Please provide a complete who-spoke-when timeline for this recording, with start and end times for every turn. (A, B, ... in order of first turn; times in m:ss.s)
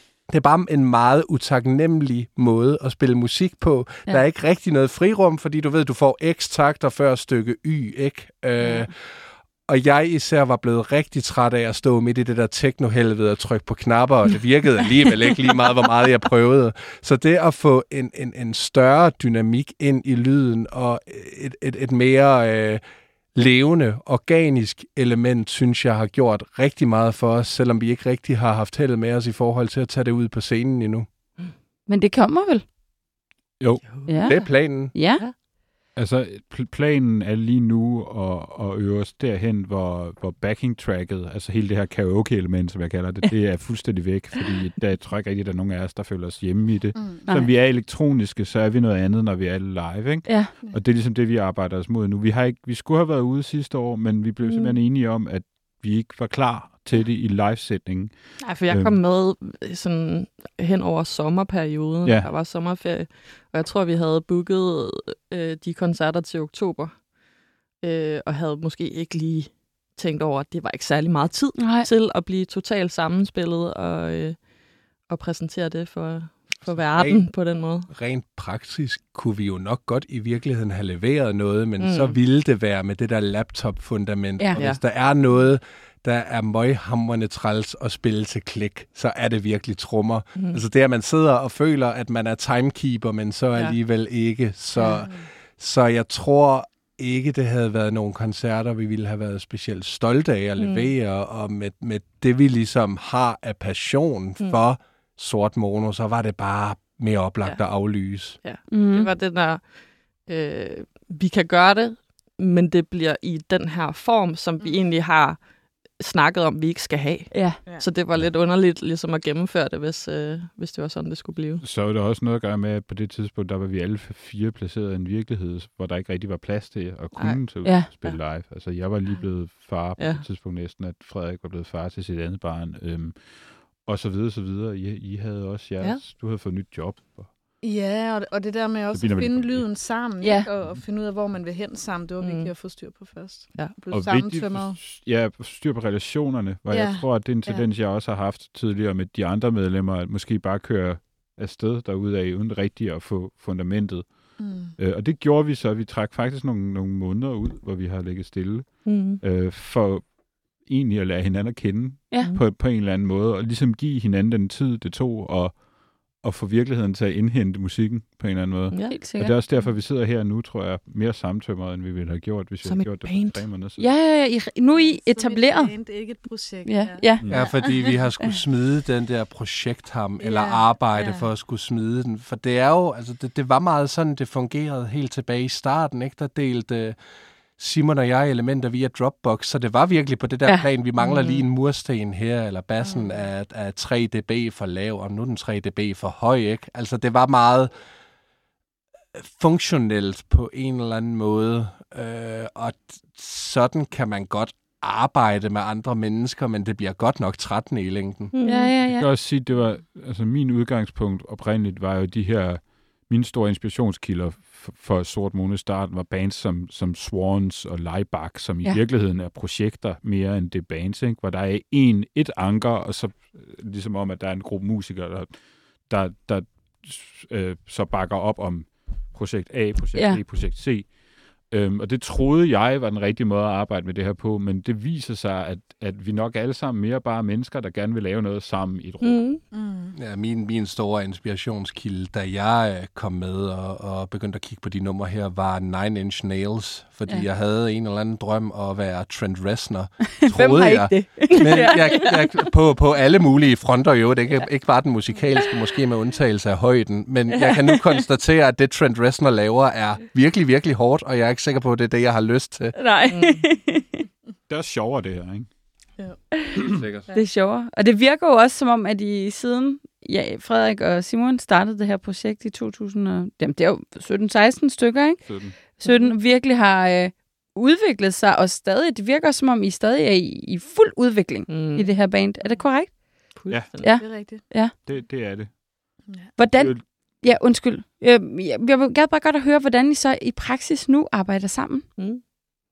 0:00.2-0:09.1 A
0:08.6-0:08.9 B
0:09.7-0:22.8 A
0:23.3-0:31.1 A
0:31.9-0:32.7 B
0:33.6-0:33.8 C
0:33.8-0:34.4 D
0:34.1-0:35.2 B
0:34.2-0:35.0 A
0:35.1-0:35.4 D
0:36.0-0:59.0 C
0:47.0-0:47.2 E
0:47.3-0:47.5 B
0:50.3-0:50.5 B
0:54.4-0:54.8 D
0:58.4-1:07.1 D
1:02.0-1:02.3 C
1:07.8-1:17.9 D
1:11.6-1:11.9 B
1:16.7-1:48.4 A
1:21.8-1:22.2 D
1:24.6-1:24.8 D
1:30.4-1:30.6 D
1:34.9-1:35.3 E
1:40.6-1:40.9 D
1:48.4-2:01.6 D
1:48.7-1:49.1 B
1:54.6-1:54.9 E
1:57.3-1:57.6 B
1:57.6-1:57.9 E
2:01.6-2:17.4 C
2:07.2-2:08.2 D
2:10.0-2:10.3 D
2:17.6-2:24.8 E
2:18.9-2:19.9 C
2:20.2-2:20.5 B
2:22.2-2:22.5 D
2:23.9-2:53.9 C
2:26.7-2:27.7 E
2:34.4-2:34.8 E
2:38.8-2:39.2 D
2:42.2-2:42.4 D
2:48.7-2:49.1 D
2:48.9-2:49.4 B
2:52.6-2:53.5 D
2:53.8-2:55.8 B
2:54.7-2:58.0 E
2:56.6-2:58.4 B
2:57.3-3:07.0 A
3:00.2-3:01.3 E
3:07.6-3:17.7 A
3:11.0-3:11.4 D
3:12.8-3:13.3 E
3:19.1-3:28.3 A
3:28.3-3:28.8 D
3:28.5-3:29.1 B
3:28.8-3:59.2 C
3:50.0-3:50.2 B
3:59.0-3:59.4 D
3:59.5-4:00.0 E
3:59.9-4:22.8 A
4:10.2-4:12.1 B
4:10.7-4:12.0 D
4:22.8-4:24.1 B
4:23.1-4:23.5 D
4:24.5-4:25.5 C
4:26.0-4:26.4 E
4:26.6-4:27.1 A
4:27.1-4:44.8 B
4:35.2-4:35.6 C
4:35.9-4:36.2 D
4:41.5-4:42.0 D
4:43.3-4:44.0 D
4:44.0-4:44.4 E
4:44.2-4:47.2 C
4:46.1-4:46.3 E
4:46.4-4:51.9 B
4:52.0-4:52.3 D